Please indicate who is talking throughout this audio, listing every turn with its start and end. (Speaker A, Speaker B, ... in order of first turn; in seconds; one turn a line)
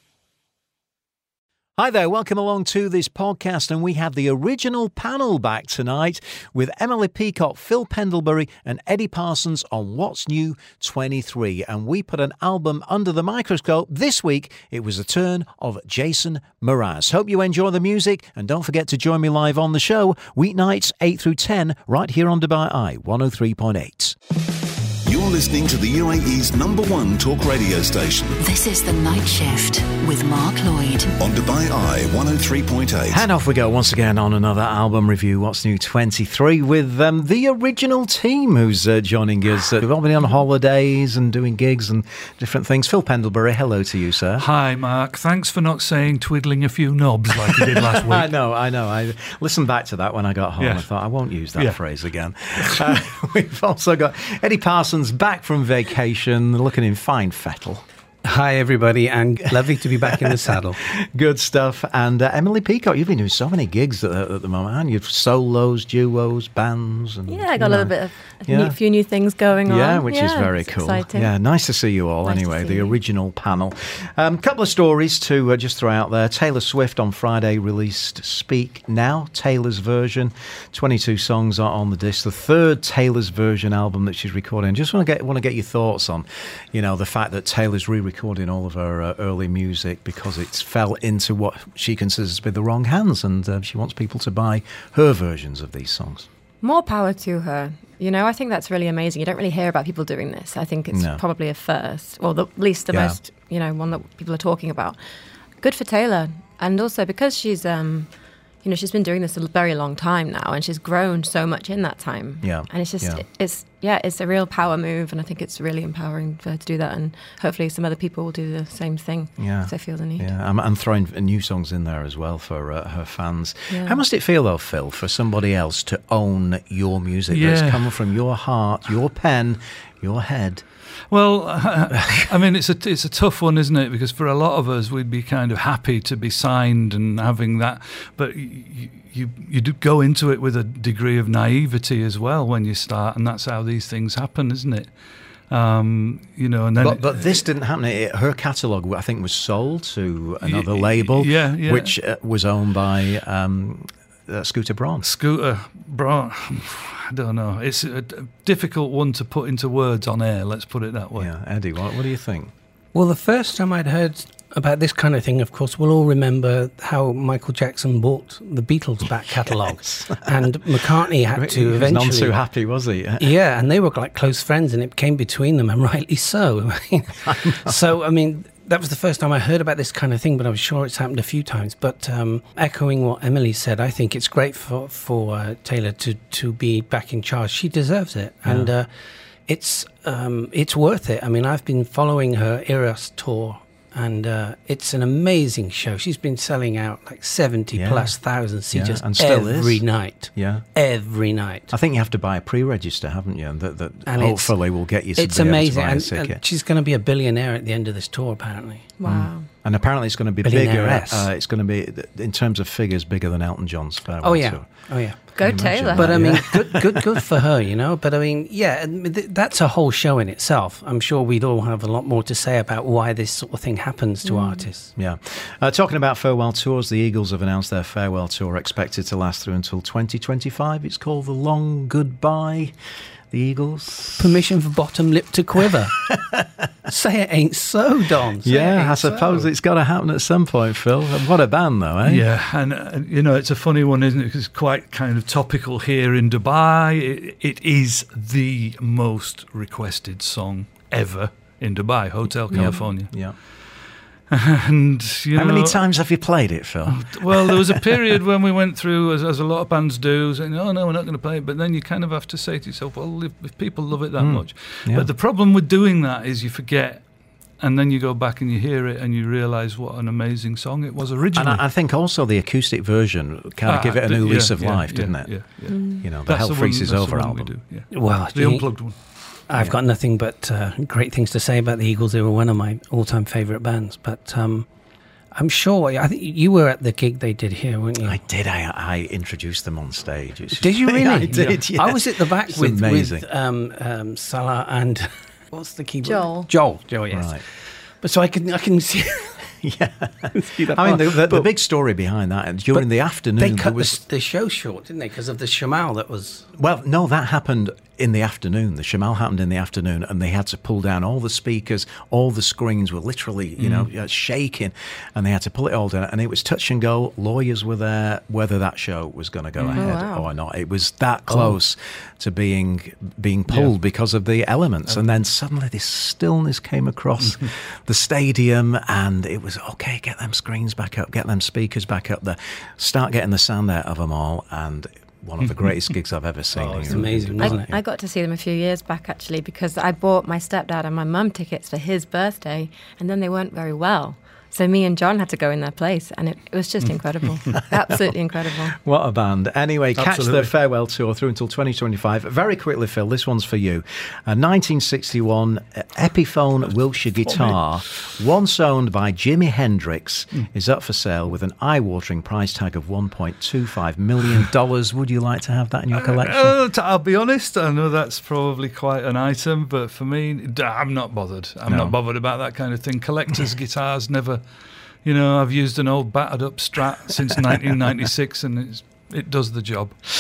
Speaker A: 1.8-24.2
Speaker B: 25.0-28.4
Speaker C: 28.4-31.1
Speaker B: 31.2-33.2
Speaker A: 33.1-44.5
Speaker D: 44.4-48.3
Speaker A: 47.5-57.8
Speaker D: 50.6-50.9
Speaker E: 58.2-60.8
Speaker A: 60.1-67.9
Speaker F: 67.3-71.3
Speaker A: 68.5-68.8
Speaker A: 69.6-96.3
Speaker F: 72.2-73.0
Speaker F: 96.6-105.0
Speaker A: 100.9-101.2
Speaker A: 102.9-103.2
Speaker F: 105.6-108.1
Speaker F: 108.6-120.3
Speaker A: 112.4-113.2
Speaker A: 119.4-130.6
Speaker F: 123.7-124.0
Speaker D: 127.3-127.9
Speaker D: 131.1-144.9
Speaker D: 145.5-147.4
Speaker A: 146.8-155.1
Speaker D: 150.4-151.9
Speaker D: 155.0-161.3
Speaker A: 161.2-162.5
Speaker E: 162.9-172.3
Speaker A: 169.4-173.4
Speaker E: 173.2-188.9
Speaker A: 177.2-177.8
Speaker A: 188.4-188.7
Speaker E: 189.5-201.7
Speaker A: 197.7-198.1
Speaker A: 198.7-200.6
Speaker A: 201.7-206.4
Speaker E: 204.1-204.6
Speaker E: 205.1-208.9
Speaker F: 209.0-209.5
Speaker A: 209.0-217.2
Speaker E: 210.4-211.3
Speaker E: 214.2-224.9
Speaker F: 215.3-216.2
Speaker F: 224.2-224.7
Speaker A: 224.9-232.8
Speaker A: 233.3-234.3
Speaker E: 234.2-236.0
Speaker A: 236.0-236.5
Speaker E: 236.9-239.4
Speaker A: 238.4-242.3
Speaker D: 242.0-253.1
Speaker A: 252.5-253.3
Speaker D: 254.3-255.8
Speaker A: 255.3-257.8
Speaker D: 256.9-267.1
Speaker A: 264.2-265.1
Speaker D: 267.6-271.6
Speaker A: 271.3-277.5
Speaker D: 273.7-279.0
Speaker F: 275.7-276.0
Speaker E: 277.9-278.7
Speaker E: 279.5-284.7
Speaker E: 285.3-288.2
Speaker A: 288.0-293.2
Speaker E: 290.6-297.4
Speaker D: 291.3-291.6
Speaker F: 296.0-296.5
Speaker A: 297.1-297.4
Speaker E: 298.0-299.4
Speaker A: 299.6-304.0
Speaker E: 300.3-301.5
Speaker E: 303.4-306.5
Speaker A: 306.6-337.7
Speaker D: 313.6-313.9
Speaker F: 319.7-320.3
Speaker D: 335.4-335.8
Speaker E: 336.5-337.6
Speaker F: 337.4-348.8
Speaker A: 347.6-348.1
Speaker A: 348.7-366.6
Speaker D: 350.0-350.5
Speaker D: 357.2-357.6
Speaker D: 365.9-374.4
Speaker A: 371.7-371.9
Speaker D: 375.0-379.9